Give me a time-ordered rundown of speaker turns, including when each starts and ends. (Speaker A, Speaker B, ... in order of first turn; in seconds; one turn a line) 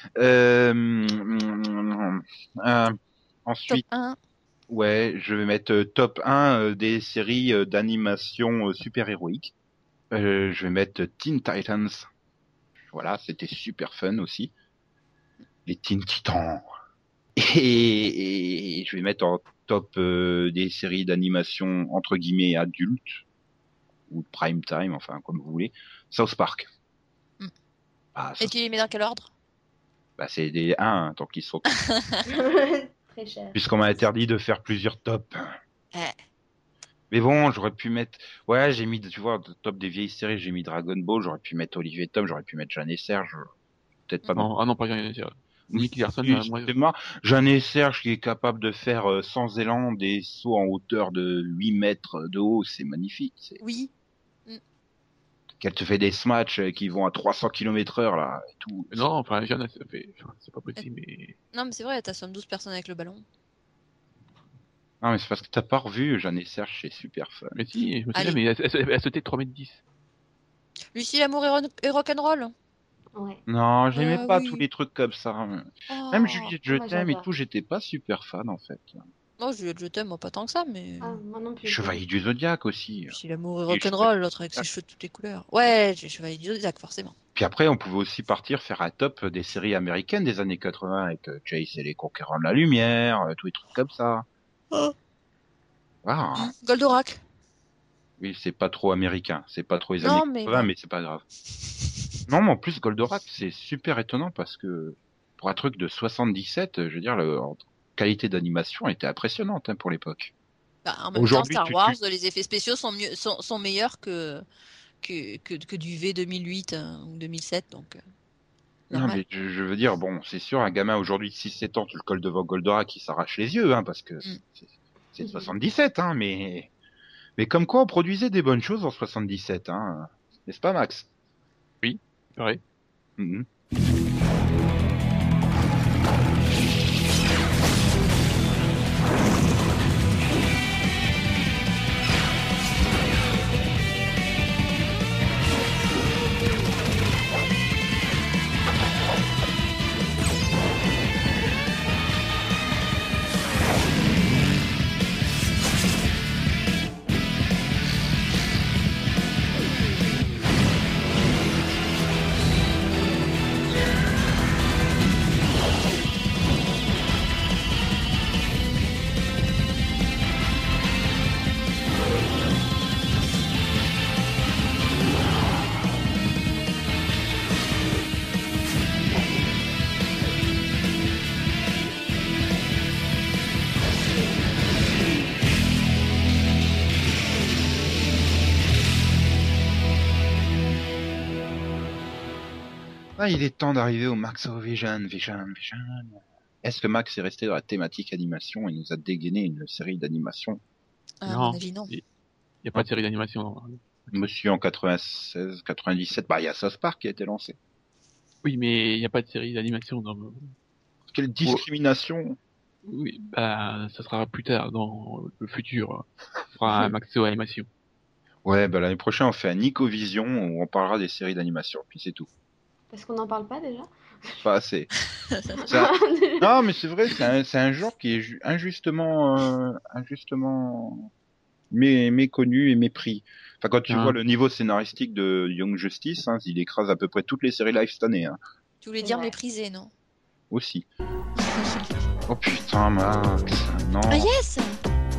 Speaker A: 0.2-3.8
Speaker B: 3.7-4.2
Speaker A: 4.7-9.5
Speaker A: 10.1-12.1
Speaker A: 12.9-14.5
Speaker A: 15.7-16.6
Speaker A: 17.4-23.2
Speaker A: 24.1-26.7
Speaker A: 28.1-28.5
Speaker B: 28.4-29.3
Speaker A: 30.2-31.7
Speaker B: 31.9-32.2
Speaker C: 32.3-33.6
Speaker A: 33.5-35.5
Speaker A: 37.1-43.4
Speaker A: 44.1-44.5
Speaker D: 44.4-46.7
Speaker A: 45.7-53.6
Speaker B: 53.6-53.9
Speaker A: 55.6-59.0
Speaker D: 58.9-61.4
Speaker B: 61.5-63.2
Speaker A: 65.0-67.5
Speaker D: 67.5-69.8
Speaker B: 70.9-72.5
Speaker C: 73.1-73.4
Speaker A: 73.5-79.1
Speaker B: 73.9-74.6
Speaker B: 75.9-76.5
Speaker C: 76.7-77.3
Speaker B: 79.4-81.2
Speaker C: 81.0-82.0
Speaker A: 81.6-83.2
Speaker B: 83.1-87.1
Speaker A: 83.7-84.6
Speaker A: 87.3-94.2
Speaker A: 96.0-96.5
Speaker B: 96.4-97.2
Speaker A: 98.2-101.2
Speaker B: 100.0-100.7
Speaker A: 102.3-110.3
Speaker B: 110.8-114.4
Speaker A: 111.1-112.0
Speaker B: 115.0-118.0
Speaker B: 118.9-119.2
Speaker A: 118.9-126.7
Speaker A: 127.4-131.1
Speaker D: 131.8-132.6
Speaker A: 133.2-133.4
Speaker A: 193.2-200.6
Speaker B: 201.2-201.9
Speaker D: 201.2-202.0
Speaker D: 202.6-204.2
Speaker A: 204.1-207.6
Speaker D: 208.4-210.5
Speaker A: 211.1-212.4
Speaker D: 212.8-217.7
Speaker A: 218.4-222.3
Speaker C: 222.9-224.4
Speaker A: 224.4-224.9
Speaker B: 225.3-225.6
Speaker C: 225.6-226.6
Speaker A: 225.7-231.1
Speaker A: 231.7-238.4
Speaker D: 233.9-234.2
Speaker B: 238.8-239.9
Speaker C: 239.0-239.3
Speaker A: 240.5-240.9
Speaker B: 241.4-241.9
Speaker A: 242.3-244.3
Speaker B: 244.1-244.8